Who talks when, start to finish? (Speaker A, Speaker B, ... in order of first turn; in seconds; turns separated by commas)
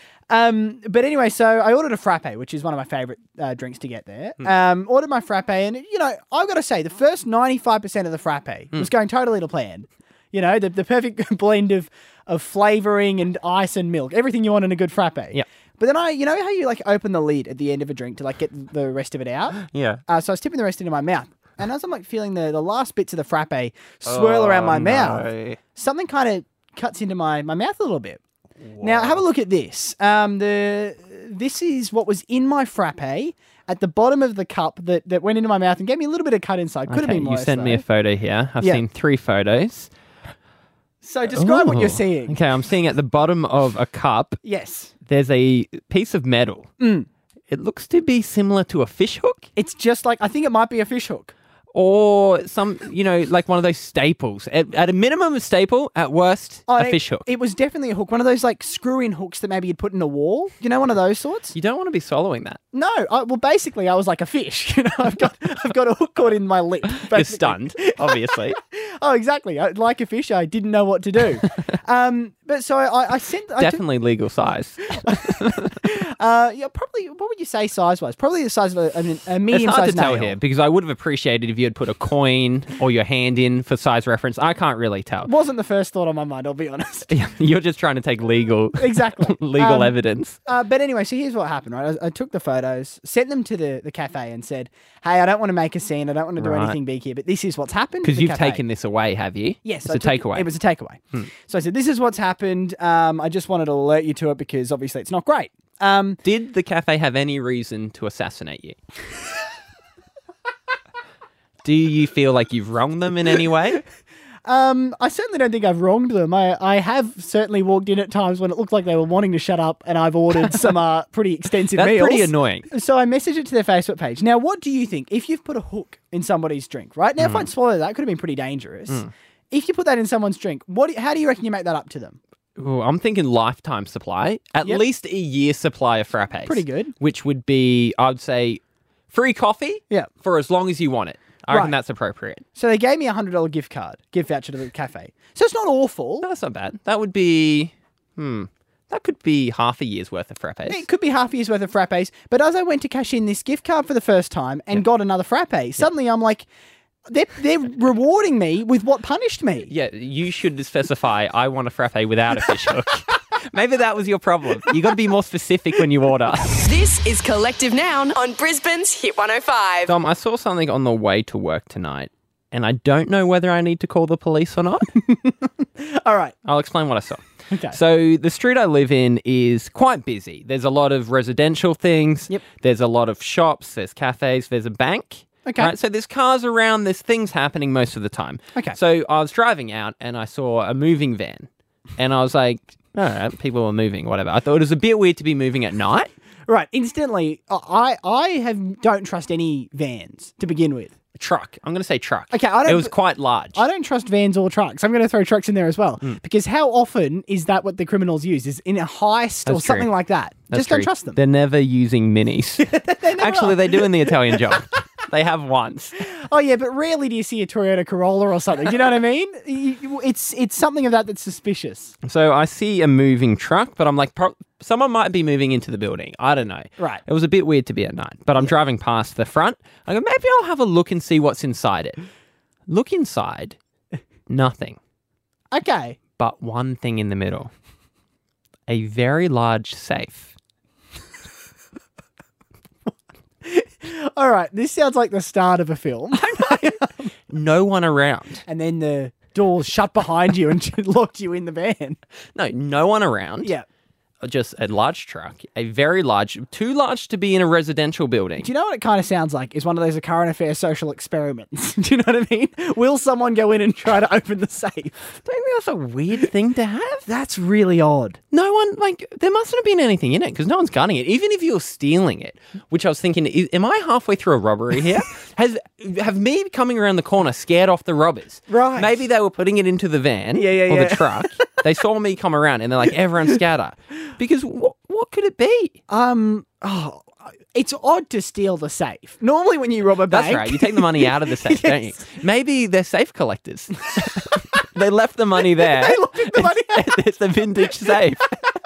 Speaker A: 0.3-28.2, Speaker B: 19.6-20.0, Speaker B: 24.1-25.6, Speaker B: 28.6-29.2, Speaker A: 28.8-37.8, Speaker B: 36.9-39.9, Speaker A: 41.0-42.4, Speaker B: 41.3-44.4, Speaker A: 44.4-44.9, Speaker B: 45.1-46.7, Speaker A: 46.8-47.1, Speaker B: 47.5-49.5, Speaker A: 49.5-51.3, Speaker B: 51.7-57.3, Speaker A: 56.7-61.5, Speaker B: 61.5-62.6, Speaker A: 62.7-73.8, Speaker B: 66.9-68.6, Speaker B: 73.6-75.7, Speaker A: 75.8-80.4, Speaker B: 79.5-85.3, Speaker A: 85.2-87.1, Speaker B: 87.1-90.4, Speaker A: 88.8-90.0, Speaker A: 90.5-98.6, Speaker B: 96.4-96.8, Speaker B: 98.0-100.5, Speaker A: 99.6-106.2, Speaker B: 106.2-108.8, Speaker B: 111.6-113.8, Speaker A: 114.5-132.2, Speaker B: 120.3-120.7, Speaker B: 121.7-122.7, Speaker B: 127.2-127.5, Speaker B: 132.6-138.6, Speaker A: 136.4-136.9, Speaker B: 139.1-142.4, Speaker A: 141.5-141.8, Speaker A: 142.5-146.3, Speaker B: 146.2-150.8, Speaker A: 150.7-156.5, Speaker A: 157.1-159.7, Speaker B: 159.7-166.6, Speaker C: 166.6-169.9, Speaker B: 169.9-174.8, Speaker A: 175.1-176.4, Speaker B: 176.4-191.5, Speaker A: 177.5-177.8, Speaker A: 185.4-185.7, Speaker B: 192.0-196.1, Speaker A: 196.5-200.9, Speaker B: 201.2-203.6, Speaker A: 202.3-202.9, Speaker A: 203.5-211.2, Speaker B: 209.5-209.9, Speaker B: 210.5-216.0, Speaker A: 212.6-214.6, Speaker A: 216.0-221.9, Speaker B: 222.0-232.0, Speaker B: 232.7-233.6, Speaker B: 234.3-234.8, Speaker A: 235.5-236.0, Speaker B: 236.2-237.5, Speaker B: 238.7-240.3, Speaker A: 243.4-247.1, Speaker B: 246.1-248.4, Speaker A: 248.4-252.0, Speaker B: 252.4-253.5, Speaker B: 254.2-258.5, Speaker A: 258.4-264.9, Speaker B: 265.3-267.1, Speaker A: 267.1-268.2, Speaker B: 268.3-285.8, Speaker A: 278.5-279.0, Speaker A: 280.4-281.3, Speaker A: 285.9-292.0, Speaker B: 290.1-298.2, Speaker A: 295.6-296.9